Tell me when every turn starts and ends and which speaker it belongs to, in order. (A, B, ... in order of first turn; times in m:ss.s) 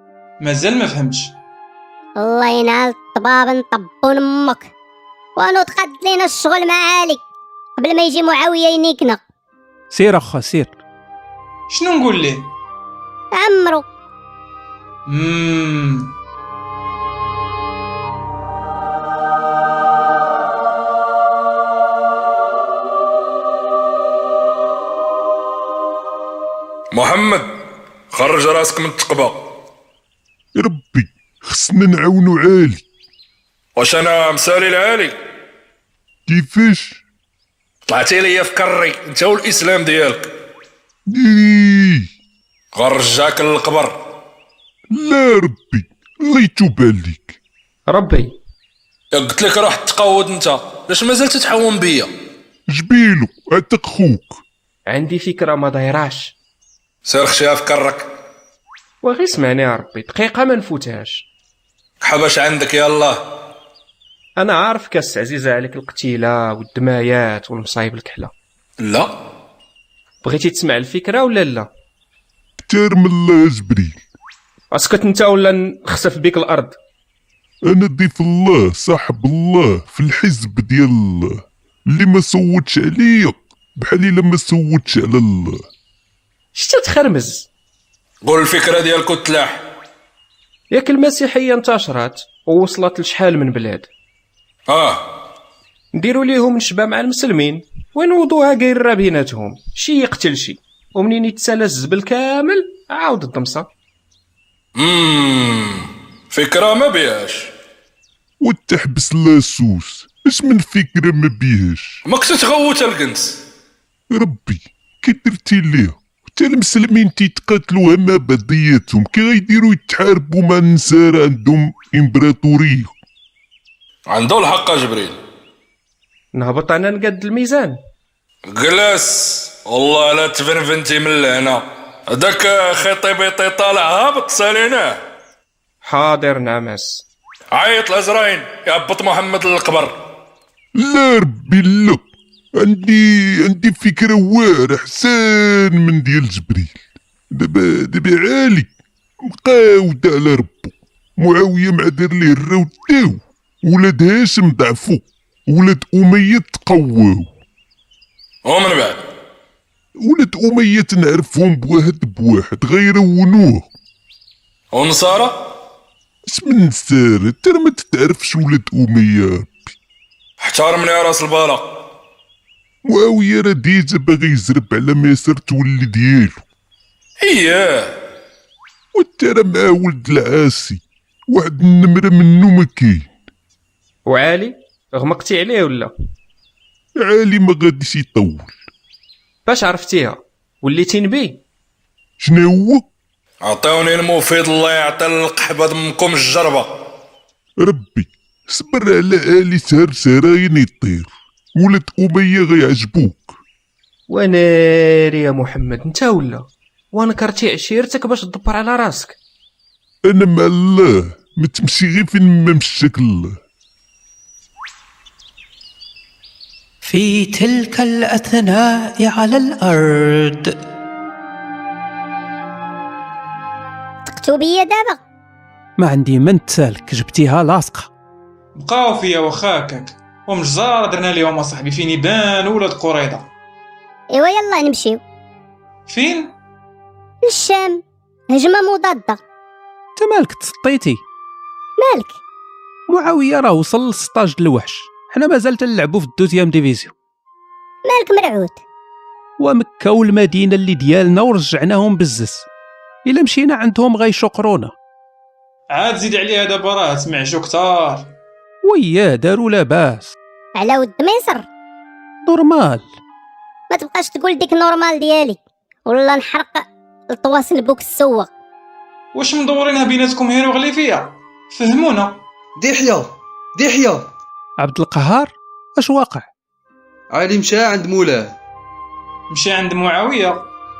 0:00.4-0:01.3 A
0:02.2-0:04.7 B
0:05.4-0:07.2 B
0:07.8-0:09.2 B
0:09.9-0:10.7 C
0:11.7-0:12.5 A
0:13.3-0:13.8 B
0:15.1-0:16.1 A
0:26.9-0:27.5 D
0:28.1-0:29.4 D
0:30.5-0:32.8 E
0:33.8-0:35.2 D
0:36.3-0:37.0 E
0:37.9-0:40.3 D
0:41.1-0:42.1 E
0:42.7-0:44.0 D
0:44.9-0:47.4 E
0:47.9-0:48.3 F
0:49.1-0:52.1 D
0:52.7-0:54.4 E
0:54.9-0:56.3 F
0:57.0-0:58.1 D
0:59.0-1:01.2 F
1:02.0-1:03.2 D
1:04.4-1:08.3 F
1:08.8-1:09.1 D
1:10.2-1:11.7 F
1:12.6-1:14.0 E
1:14.7-1:16.8 F
1:17.7-1:25.6 E
1:26.5-1:27.5 F
1:28.2-1:29.6 D
1:30.7-1:33.9 F
1:34.7-1:35.1 D
1:35.9-1:43.7 F
1:44.8-1:47.5 D
1:48.4-1:52.0 E
1:52.0-1:53.4 D
1:54.1-2:02.9 E
2:04.1-2:05.2 D
2:06.3-2:07.8 F
2:08.5-2:15.0 D
2:15.8-2:17.0 F
2:17.5-2:19.9 D
2:20.8-2:22.0 E
2:22.6-2:26.8 E
2:27.3-2:28.7 E
2:29.2-2:37.3 E
2:38.4-2:39.0 D
2:40.0-2:43.6 E
2:44.7-2:45.3 D
2:46.2-2:49.7 E
2:50.4-2:51.7 D
2:52.8-2:56.4 E
2:57.2-2:57.9 D
2:58.9-3:00.8 E
3:01.3-3:03.1 E
3:04.1-3:05.9 F
3:07.0-3:08.5 E
3:09.4-3:11.4 F
3:12.2-3:12.8 E
3:13.4-3:16.7 D
3:17.6-3:23.3 E
3:24.1-3:29.2 F
3:30.0-3:33.4 E
3:36.8-3:40.6 G
3:44.1-3:45.0 B
3:45.8-3:47.9 C
3:48.6-3:53.3 A
3:54.1-3:55.0 B
3:55.9-3:56.3 A
3:57.2-3:59.2 B
4:00.0-4:01.0 C
4:01.8-4:02.2 B
4:02.9-4:06.9 C
4:07.8-4:08.6 B
4:09.4-4:12.5 C
4:13.0-4:14.7 C
4:15.7-4:18.1 A
4:18.6-4:20.1 C
4:20.6-4:21.4 B
4:22.2-4:22.9 C
4:23.7-4:28.3 B
4:29.1-4:32.2 A
4:32.6-4:34.1 H
4:34.6-4:36.2 C
4:37.1-4:38.3 H
4:39.3-4:40.5 A